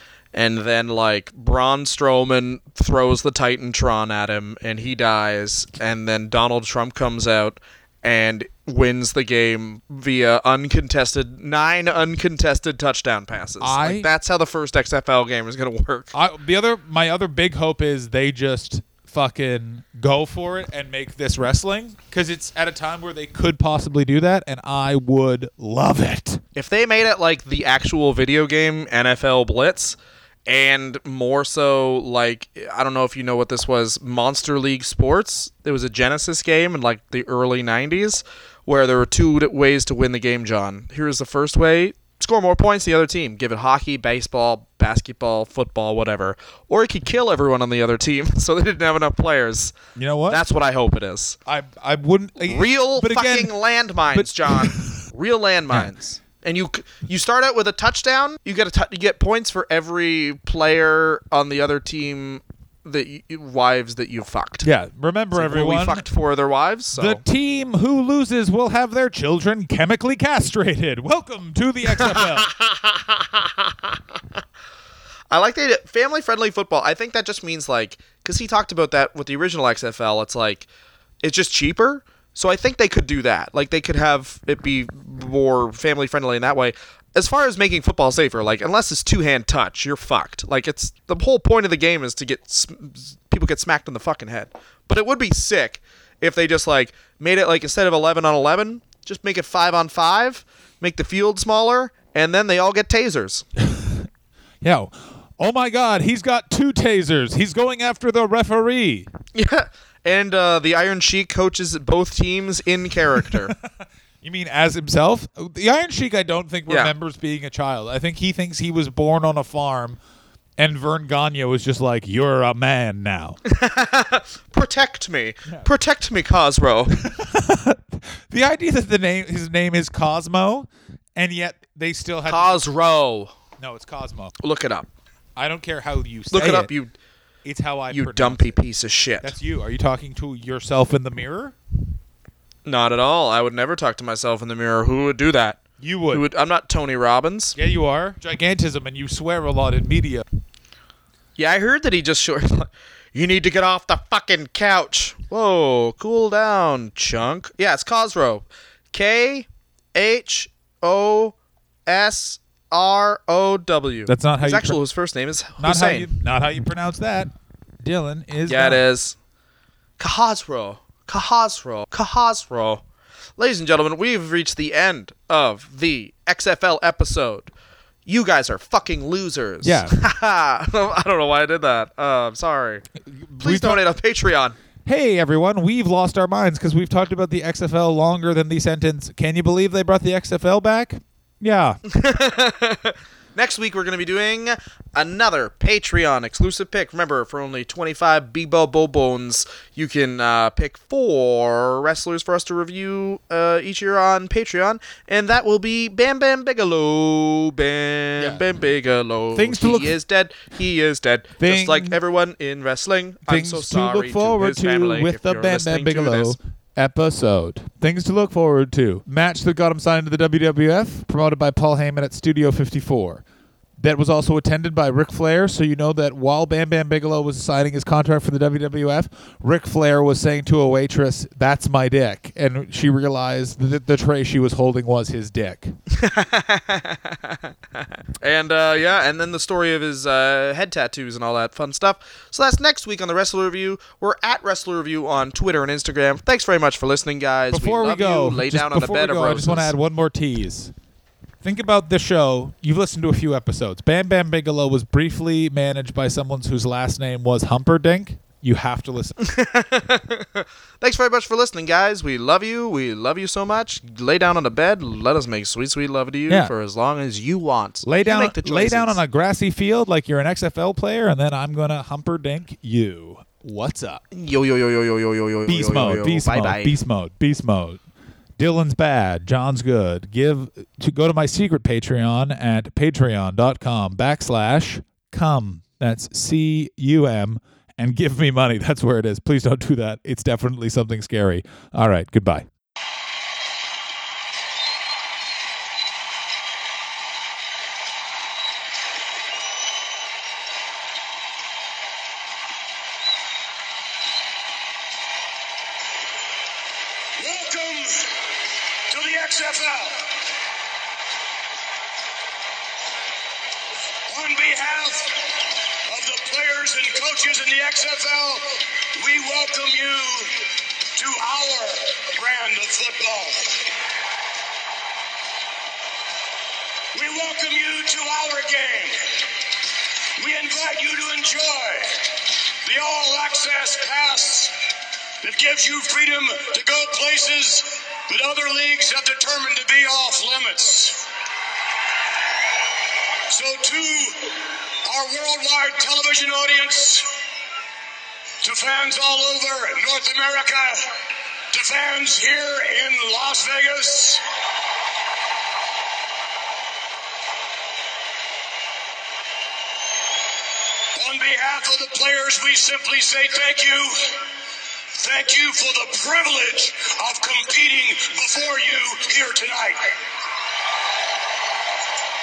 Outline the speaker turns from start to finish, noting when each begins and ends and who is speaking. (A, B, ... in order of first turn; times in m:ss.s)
0:00.3-0:16.1 A
0:13.6-0:14.1 B
0:16.1-0:26.4 B
0:26.6-0:49.8 A
0:50.0-0:50.4 B
0:50.3-0:51.4 A
0:51.5-0:53.6 B
0:52.5-1:04.7 A
0:54.1-0:55.0 B
1:04.6-1:06.1 B
1:05.3-1:07.2 A
1:07.0-1:12.5 B
1:12.0-1:13.9 A
1:15.3-1:20.7 A
1:21.2-1:43.4 A
1:43.6-1:44.1 B
1:44.6-1:49.1 B
1:49.3-1:53.6 A
1:54.2-2:00.0 B
2:00.6-2:03.4 B
2:03.5-2:07.1 A
2:07.0-2:12.7 B
2:12.3-2:13.3 A
2:13.6-2:14.4 B
2:14.4-2:14.9 A
2:15.4-2:16.7 B
2:16.3-2:16.9 A
2:17.4-2:18.6 B
2:17.9-2:19.3 A
2:19.2-2:21.6 B
2:22.7-2:27.6 A
2:25.8-2:26.2 B
2:27.6-2:30.2 B
2:31.4-2:41.4 A
2:41.9-2:46.1 A
2:44.1-2:44.8 B
2:45.6-2:48.8 B
2:48.5-2:49.2 A
2:50.0-2:52.8 A
2:53.4-2:57.5 A
2:58.1-3:02.8 A
2:59.6-3:00.0 B
3:03.0-3:03.8 B
3:03.4-3:04.6 A
3:04.9-3:11.8 B
3:11.9-3:36.4 A
3:29.3-3:30.0 B
3:31.4-3:32.0 B
3:33.3-3:43.2 B
3:43.8-3:55.8 B
3:55.9-3:57.5 A
3:58.2-4:09.7 A
4:07.5-4:10.7 B
4:11.4-4:19.2 B
4:19.2-4:29.0 A
4:27.8-4:34.0 B
4:34.1-4:36.8 A
4:35.5-4:37.8 B
4:38.4-4:52.5 B
5:07.2-5:08.3 C
5:08.9-5:10.2 C
5:14.1-5:18.4 C
5:19.0-5:23.6 C
5:26.9-5:29.2 C
5:30.2-5:34.5 C
5:35.2-5:41.0 C
5:43.3-5:47.1 C
5:48.4-5:50.9 C
5:51.5-5:54.2 C
6:01.0-6:04.3 C
6:05.0-6:09.9 C